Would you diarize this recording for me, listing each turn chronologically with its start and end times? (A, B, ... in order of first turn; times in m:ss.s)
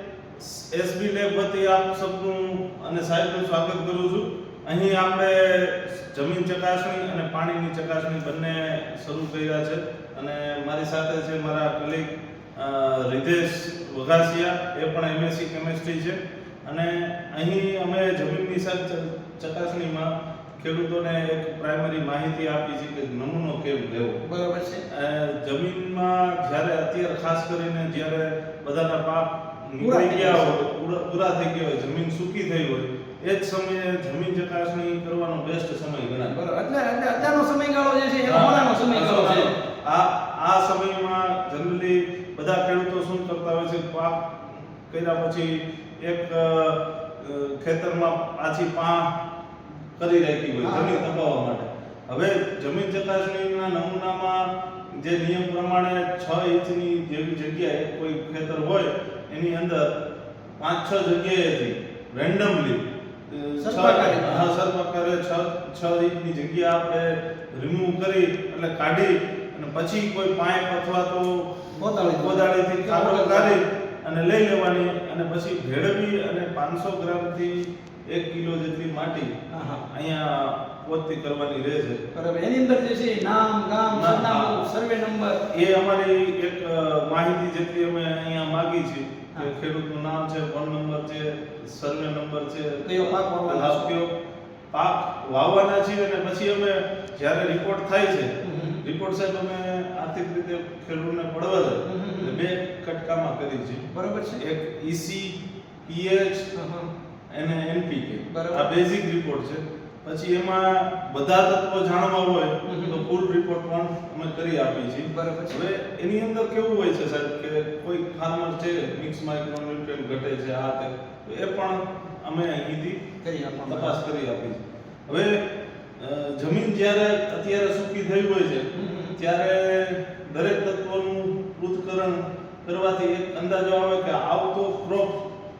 0:00.4-0:24.2 A
0:24.2-0:24.8 B
0:24.9-0:36.3 A
0:29.8-0:30.5 B
0:36.3-0:39.5 B
0:38.2-0:49.0 A
0:50.0-0:59.9 A
0:50.6-0:51.0 B
1:00.6-1:19.3 A
1:03.6-1:04.5 B
1:11.8-1:13.6 B
1:19.5-1:19.8 B
1:19.9-1:22.0 A
1:22.1-1:25.4 B
1:23.9-1:24.6 A
1:25.5-1:34.1 A
1:32.8-1:33.9 B
1:34.7-1:43.8 A
1:38.4-1:38.8 B
1:41.8-1:42.4 B
1:43.9-1:44.4 B
1:44.4-1:46.5 A
1:46.5-1:46.9 B
1:47.3-2:03.0 A
1:48.3-1:48.7 B
1:52.6-1:53.0 B
1:55.1-1:55.6 B
2:03.2-2:04.0 B
2:03.7-2:05.4 A
2:06.0-2:15.2 A
2:08.7-2:09.2 B